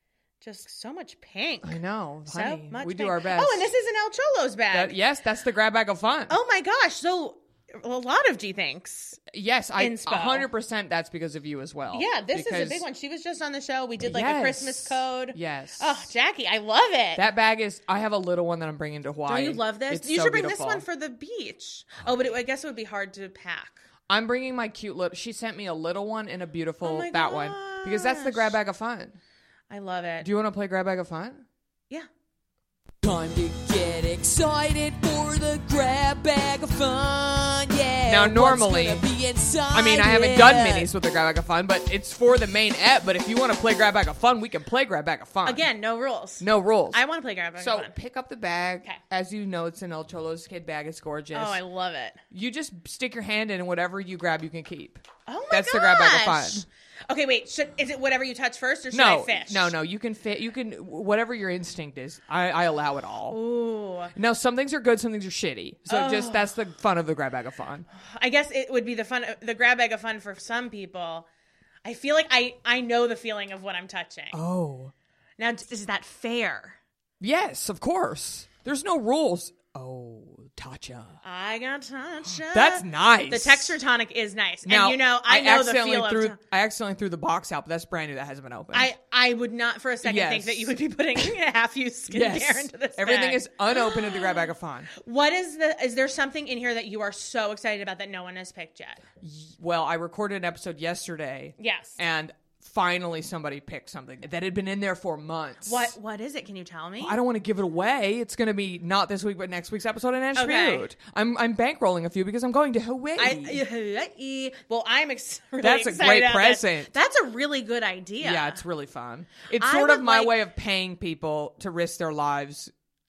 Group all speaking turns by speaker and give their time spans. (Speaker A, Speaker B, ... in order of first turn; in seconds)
Speaker A: 0.4-5.0, 6.3-9.2, 9.8-10.5, 11.9-17.2, 19.3-23.8, 26.8-28.6, 29.7-30.3, 45.5-47.9, 51.3-52.2, 55.3-59.7, 63.3-64.1, 65.9-66.5, 67.9-71.3, 71.8-74.4, 75.4-76.8, 81.2-86.4, 88.7-99.0, 101.6-102.0, 105.7-107.2, 110.3-110.9, 113.2-118.6, 119.6-120.4
Speaker B: 1.6-3.7, 4.7-6.4, 9.3-12.8, 14.0-16.1, 17.2-20.9, 24.1-29.2, 30.2-31.4, 38.1-39.1, 39.7-45.7, 46.4-47.0, 47.6-51.6, 52.3-56.6, 58.9-63.4, 64.1-67.9, 74.3-74.9, 77.2-81.2, 82.5-83.8, 84.7-88.9, 90.0-91.3, 92.1-94.9, 99.2-106.0, 107.0-113.6, 115.6-116.9, 118.2-122.7
Speaker C: 33.0-40.9